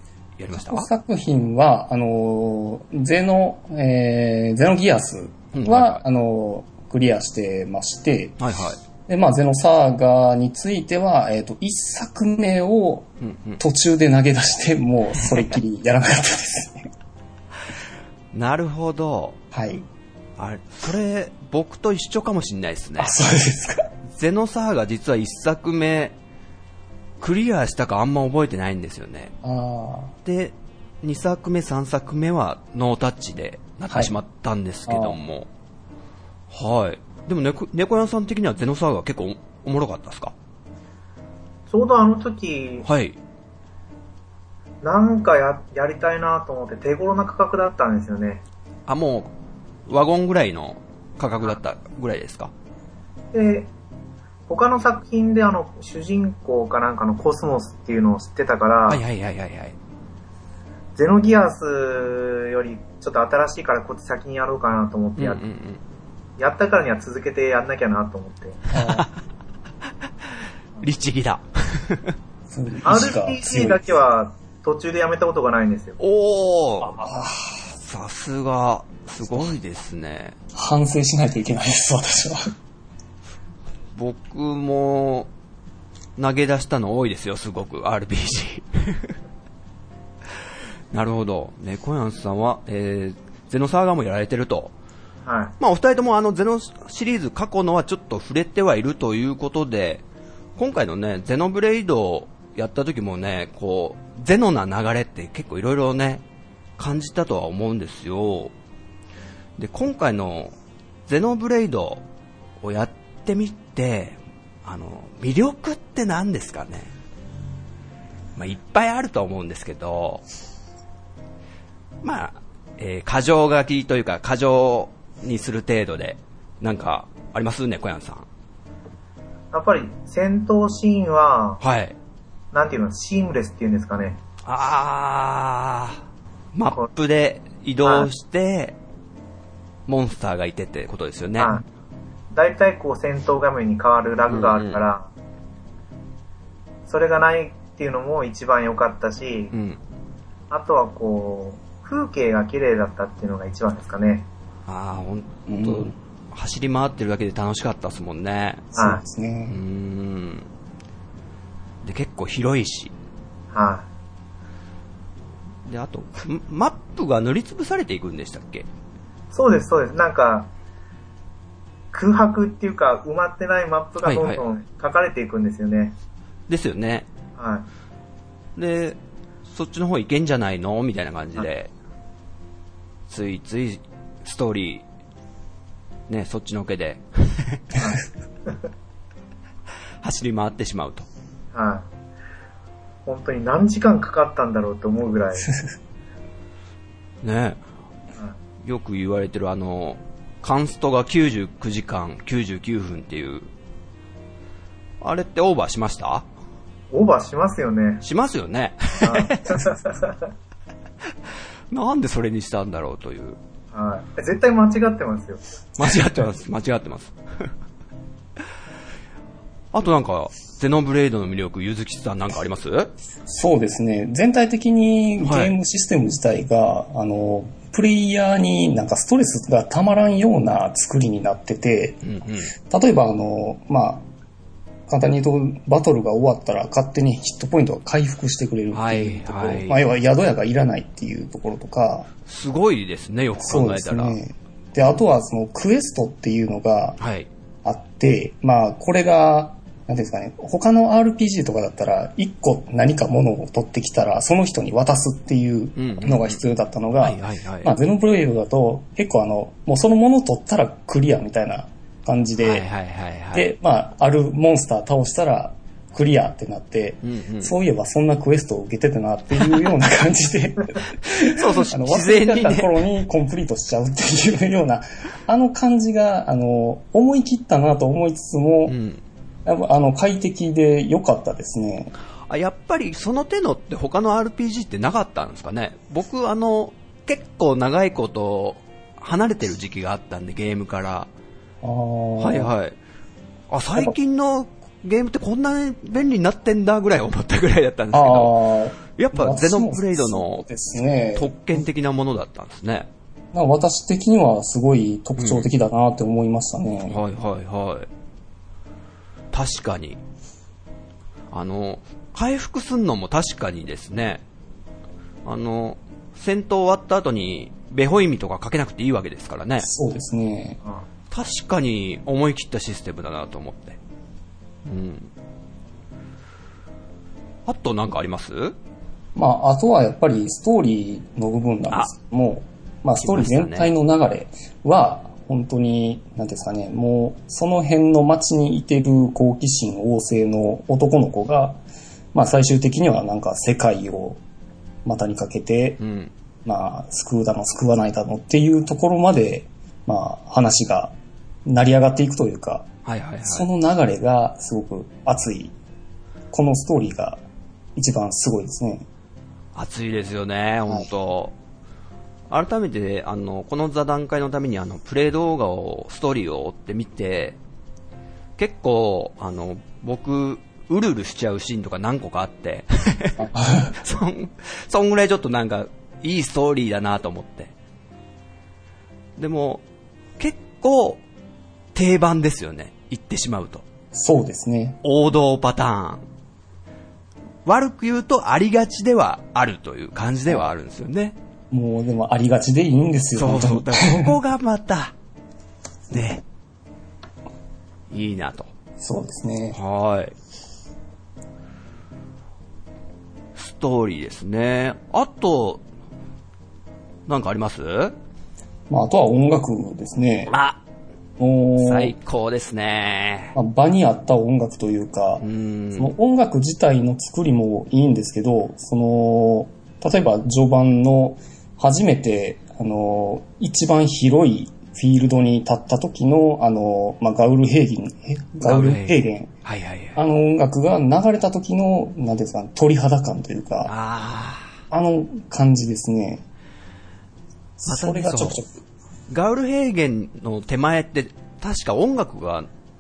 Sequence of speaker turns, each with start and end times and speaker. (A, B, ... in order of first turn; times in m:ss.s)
0:00.4-0:00.9 A
0:00.6-0:08.4 B
0:05.5-0:06.0 A
0:08.4-0:08.8 A
0:09.1-0:13.1 B
0:13.2-0:13.6 A
0:13.6-0:16.9 B
0:15.2-0:15.5 A
0:18.3-0:19.4 A
0:19.5-0:19.8 B
0:20.4-0:23.1 A
0:23.0-0:23.9 B
0:24.1-0:26.1 A
0:27.2-0:29.3 A
0:29.4-0:30.2 B
0:30.2-0:35.5 A
0:34.9-0:35.2 B
0:36.5-0:40.3 A
0:41.7-0:42.9 C
0:42.9-0:43.2 A
0:44.8-0:48.4 C
0:48.9-0:49.3 A
0:49.9-0:52.5 A
0:53.3-0:53.7 C
0:54.5-0:59.0 C
0:58.9-0:59.8 A
1:01.0-1:05.4 C
1:05.2-1:05.8 A
1:06.4-1:08.6 C
1:08.7-1:09.1 B
1:08.7-1:09.1 A
1:10.8-1:12.1 A
1:12.5-1:13.8 B
1:12.8-1:16.0 C
1:16.0-1:17.0 A
1:16.8-1:17.7 B
1:17.8-1:20.4 A
1:20.5-1:22.5 B
1:23.9-1:25.3 A
1:26.2-1:29.1 A
1:30.9-1:34.7 A
1:35.2-1:35.5 C
1:35.6-1:40.0 A
1:40.6-1:46.2 A
1:46.8-1:48.5 A
1:49.6-1:50.5 A
1:51.1-1:52.0 A
1:52.6-1:56.9 A
1:58.4-2:00.2 A
2:02.0-2:08.3 A
2:09.5-2:11.6 C
2:11.6-2:11.9 A
2:12.5-2:14.2 C
2:14.4-2:16.0 A
2:16.5-2:18.8 A
2:17.8-2:18.1 C
2:19.9-2:21.6 A
2:21.4-2:21.6 C
2:22.3-2:25.1 C
2:24.3-2:24.8 A
2:26.9-2:29.5 C
2:29.5-2:29.8 A
2:30.5-2:34.3 C
2:34.7-2:38.7 A
2:35.5-2:35.9 B
2:38.8-2:39.0 C
2:38.8-2:39.6 B
2:39.5-2:40.5 A
2:41.8-2:42.9 A
2:43.5-2:43.9 C
2:45.7-2:48.7 A
2:49.3-2:50.5 C
2:51.9-2:55.9 C
2:54.0-2:54.4 A
2:56.5-2:57.1 A
2:57.4-2:57.7 C
2:58.6-3:01.7 A
3:03.1-3:04.8 A
3:06.1-3:07.7 A
3:07.8-3:08.6 C
3:10.0-3:11.1 A
3:11.5-3:11.9 C
3:13.1-3:15.5 C
3:17.2-3:17.6 A
3:18.6-3:23.5 A
3:25.0-3:26.3 A
3:26.9-3:28.0 C
3:28.0-3:29.8 A
3:29.0-3:30.2 C
3:31.7-3:33.4 A
3:33.7-3:35.4 C
3:35.8-3:37.5 A
3:39.7-3:42.9 A
3:43.3-3:52.0 B
3:45.2-3:45.5 A
3:52.0-3:52.5 A
3:52.7-3:54.0 B
3:54.9-4:02.1 B
3:58.7-3:59.8 A
4:02.3-4:04.2 A
4:03.4-4:07.0 B
4:07.0-4:07.3 A
4:07.6-4:22.6 B
4:15.8-4:16.4 A
4:17.0-4:17.7 A
4:22.4-4:23.5 A
4:23.3-4:38.8 B
4:27.0-4:27.6 A
4:31.1-4:32.8 A
4:38.7-4:39.0 A
4:39.4-4:41.9 B
4:42.3-4:51.1 A
4:51.6-4:52.5 B
4:52.2-4:52.8 A
4:53.5-4:58.3 A
4:57.9-5:01.7 B
4:58.9-5:00.5 A
5:01.2-5:02.9 A
5:03.3-5:07.0 B
5:05.2-5:05.5 A
5:06.9-5:07.9 A
5:09.3-5:10.0 A
5:11.3-5:14.2 A
5:15.2-5:19.7 A
5:19.6-5:20.6 B
5:21.1-5:23.8 A
5:24.6-5:25.1 A
5:27.4-5:28.6 A
5:29.1-5:41.6 B
5:33.0-5:33.7 A
5:42.1-5:44.2 B
5:44.8-5:45.8 B
5:45.8-5:46.1 A
5:46.4-5:50.9 B
5:51.4-5:52.7 B
5:52.8-5:53.5 A
5:53.2-5:55.6 B
5:56.3-5:57.2 B
5:57.8-5:58.9 B
5:59.5-6:01.3 A
6:02.3-6:07.4 A
6:08.4-6:17.5 A
6:13.2-6:13.7 B
6:19.2-6:19.6 A
6:20.2-6:21.0 A
6:21.8-6:23.6 A
6:23.9-6:24.8 B
6:24.8-6:26.0 A
6:27.4-6:31.2 A
6:31.5-6:34.1 B
6:33.2-6:34.9 A
6:35.9-6:36.2 A
6:37.9-6:38.5 A
6:38.8-6:39.6 B
6:39.6-6:40.1 A
6:43.4-6:45.6 A
6:47.1-6:47.9 A
6:48.7-6:50.3 B
6:50.3-6:50.6 A
6:51.2-6:51.9 B
6:51.6-6:53.3 A
6:53.3-6:55.2 B
6:55.2-6:55.9 A
6:55.8-7:09.3 B
7:08.4-7:10.0 A
7:10.0-7:13.7 B
7:13.6-7:14.5 A
7:14.7-7:16.2 B
7:17.6-7:18.5 B
7:17.7-7:18.4 A
7:19.1-7:22.5 A